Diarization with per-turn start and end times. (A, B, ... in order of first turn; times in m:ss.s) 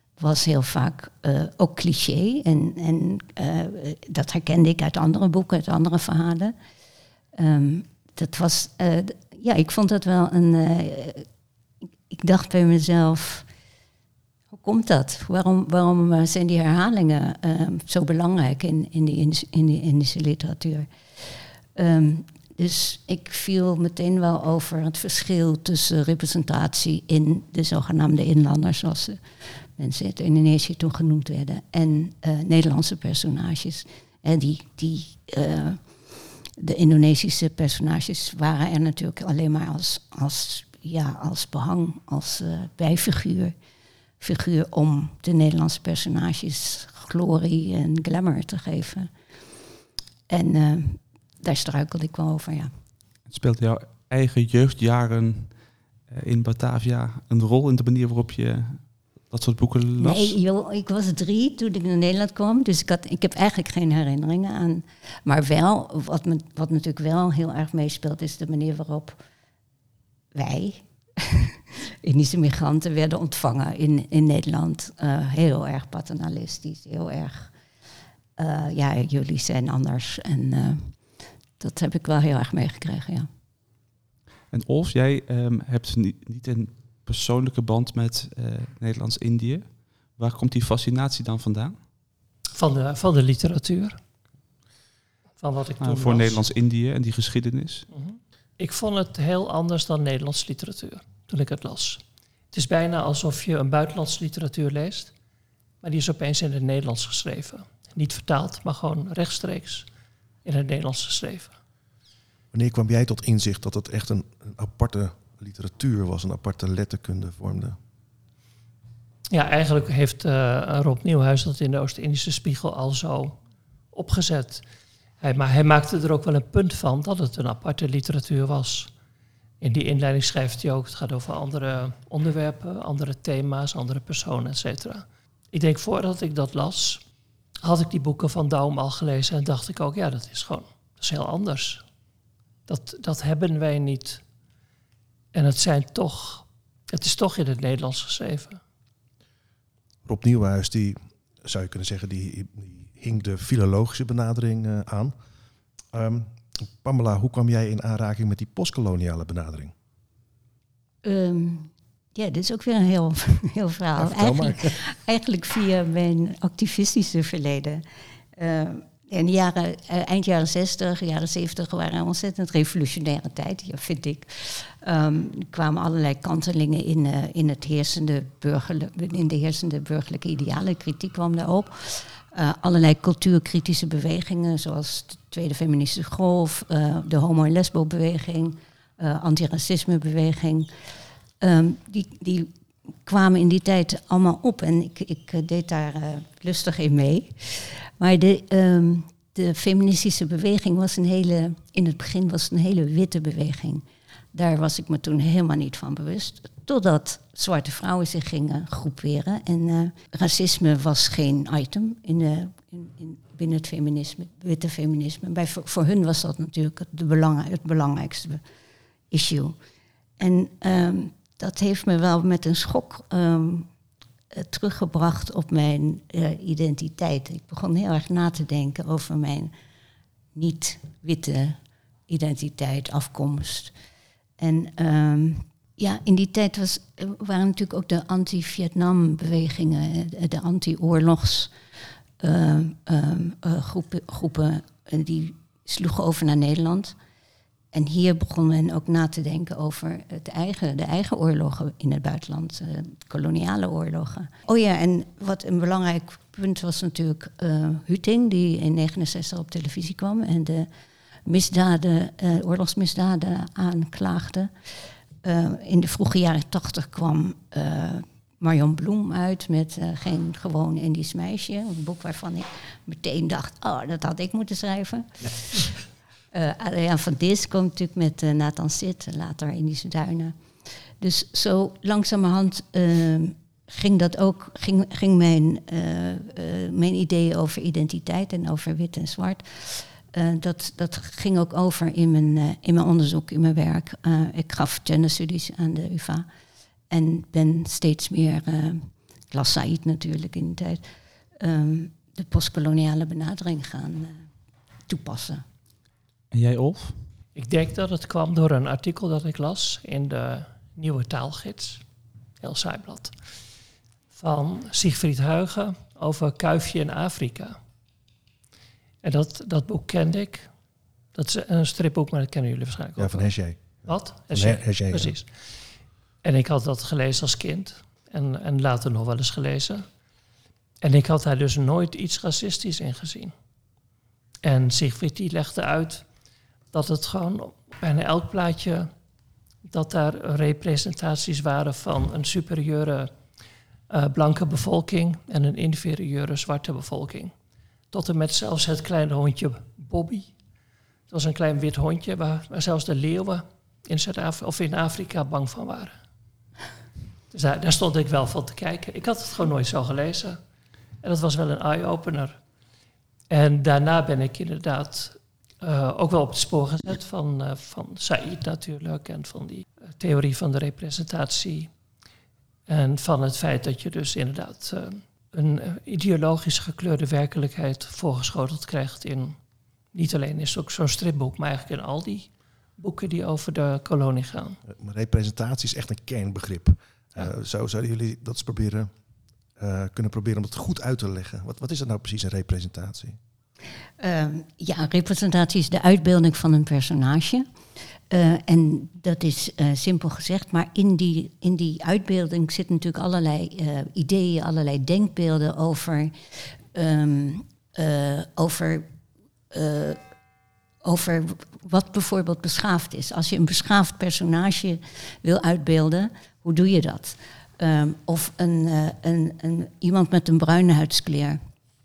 0:00.2-0:06.6 A
0:07.4-0:11.3 A
0:12.1-0:13.5 A
0:14.5-0:35.8 A
0:36.6-0:43.6 A
0:44.2-0:49.1 A
0:50.3-0:52.7 A
0:53.3-0:55.5 B
0:56.1-1:00.4 B
1:00.0-1:09.2 A
1:10.4-1:17.5 A
1:18.4-1:21.0 A
1:21.6-1:23.3 A
1:24.5-1:31.8 B
1:32.6-1:34.0 C
1:35.4-1:36.4 C
1:35.8-1:37.9 B
1:37.9-1:42.0 C
1:42.5-1:45.1 C
1:45.8-1:49.9 C
1:50.4-1:51.5 C
1:52.5-1:57.8 D
1:59.3-2:03.4 C
2:03.9-2:04.6 C
2:05.2-2:08.9 C
2:09.6-2:17.0 C
2:17.6-2:21.8 C
2:22.7-2:24.2 C
2:25.3-2:28.6 C
2:30.1-2:35.2 D
2:35.9-2:39.7 D
2:41.0-2:47.8 A
2:44.0-2:44.8 D
2:48.4-3:10.7 A
3:11.4-3:12.5 A
3:13.1-3:38.4 A
3:39.1-3:39.6 A
3:40.2-3:43.7 A
3:44.3-3:49.5 A
3:50.4-3:53.7 A
3:54.4-4:01.5 A
4:02.2-4:07.0 A
4:07.7-4:20.7 A
4:21.3-4:24.5 A
4:25.2-4:35.7 A
4:36.3-4:56.3 A
4:56.9-5:00.8 A
5:01.4-5:04.3 A
5:04.9-5:05.4 A
5:06.3-5:07.0 B
5:07.4-5:11.8 C
5:12.4-5:13.2 C
5:14.1-5:17.6 C
5:19.0-5:20.5 C
5:21.1-5:23.3 C
5:23.0-5:25.1 D
5:23.8-5:25.3 C
5:26.2-5:29.8 C
5:30.8-5:33.3 C
5:34.4-5:36.0 C
5:36.7-5:38.9 C
5:39.6-5:43.1 C
5:43.9-5:47.3 C
5:47.9-5:50.3 C
5:51.1-5:56.0 C
5:57.3-6:00.4 C
6:01.0-6:02.4 C
6:03.3-6:11.7 C
6:12.7-6:19.4 C
6:19.9-6:24.6 C
6:24.7-6:28.9 D
6:29.6-6:33.2 D
6:34.0-6:37.5 A
6:38.1-6:48.9 A
6:49.5-6:50.0 A
6:50.8-7:01.4 A